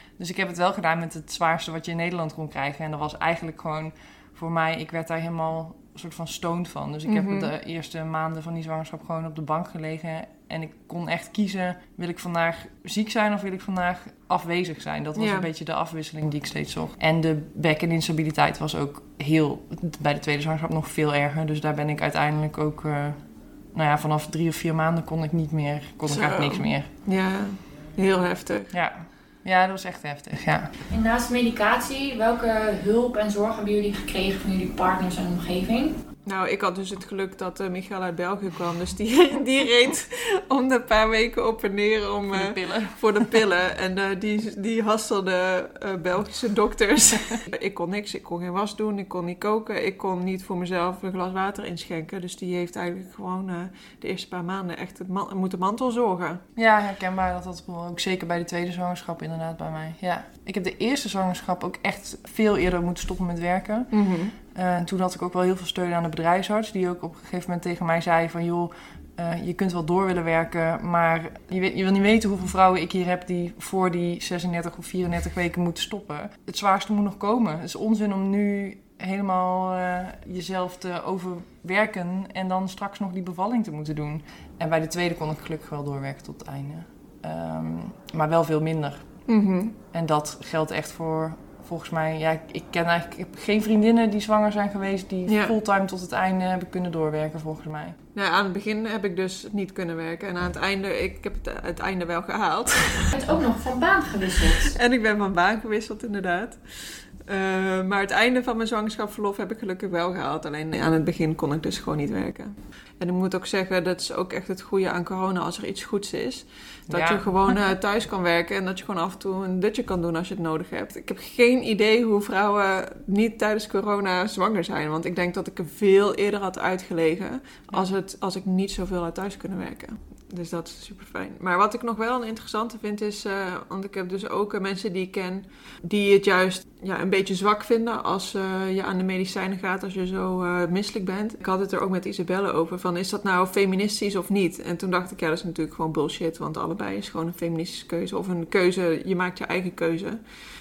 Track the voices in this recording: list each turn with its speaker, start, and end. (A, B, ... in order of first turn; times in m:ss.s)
0:00.2-0:26.9 A
0:07.1-0:07.5 B
0:15.2-0:15.5 B
0:26.1-0:28.7 B
0:28.7-0:30.7 A
0:30.9-0:36.0 C
0:36.2-0:56.4 B
0:42.3-0:43.4 A
0:56.6-1:04.0 A
1:03.9-1:04.3 B
1:04.5-1:29.1 A
1:29.3-1:29.7 B
1:29.9-1:38.0 A
1:35.3-1:35.6 B
1:38.1-1:43.1 B
1:43.1-1:44.7 C
1:44.7-2:30.2 B
1:56.9-1:57.2 A